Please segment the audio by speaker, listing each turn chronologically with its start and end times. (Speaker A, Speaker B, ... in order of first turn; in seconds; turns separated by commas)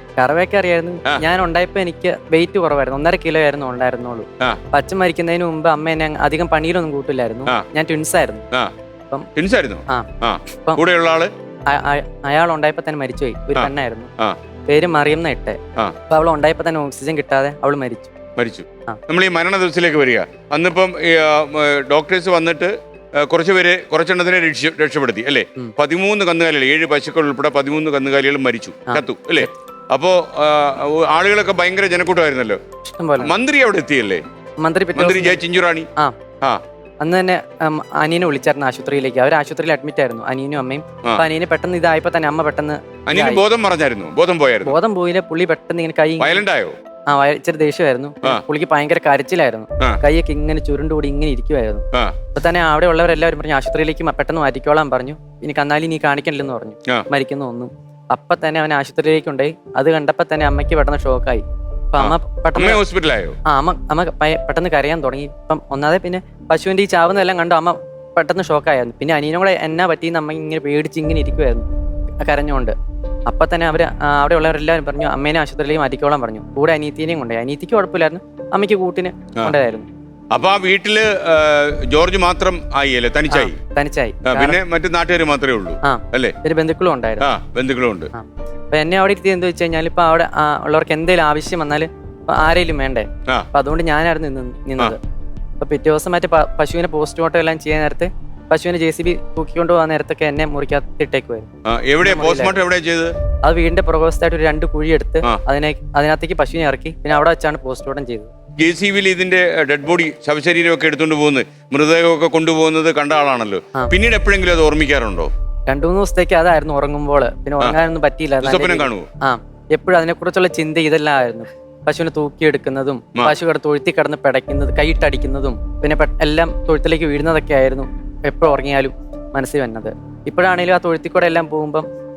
Speaker A: 0.2-8.4, Speaker B: 9.3-11.3, Speaker A: 9.9-10.8, Speaker A: 11.7-14.1, Speaker B: 13.5-14.4, Speaker A: 14.7-15.6, Speaker A: 16.1-18.1, Speaker B: 18.4-32.6, Speaker A: 28.9-29.5, Speaker A: 32.8-33.3, Speaker B: 33.2-34.2, Speaker A: 34.6-35.4, Speaker B: 34.9-35.9, Speaker A: 37.0-43.4, Speaker B: 43.1-44.7, Speaker A: 44.6-46.4, Speaker B: 46.2-46.8, Speaker A: 47.1-51.8, Speaker A: 52.3-62.8, Speaker B: 62.0-63.4, Speaker A: 63.5-71.7, Speaker A: 72.2-72.7, Speaker A: 73.3-79.9, Speaker B: 80.3-83.6, Speaker A: 83.3-84.6, Speaker B: 84.2-86.3, Speaker A: 85.8-87.3, Speaker B: 87.2-88.1, Speaker A: 88.1-95.0, Speaker A: 95.6-101.5, Speaker B: 101.7-103.1, Speaker A: 102.0-102.5, Speaker A: 103.4-108.3, Speaker B: 108.6-115.3, Speaker A: 115.7-131.8, Speaker B: 118.4-119.1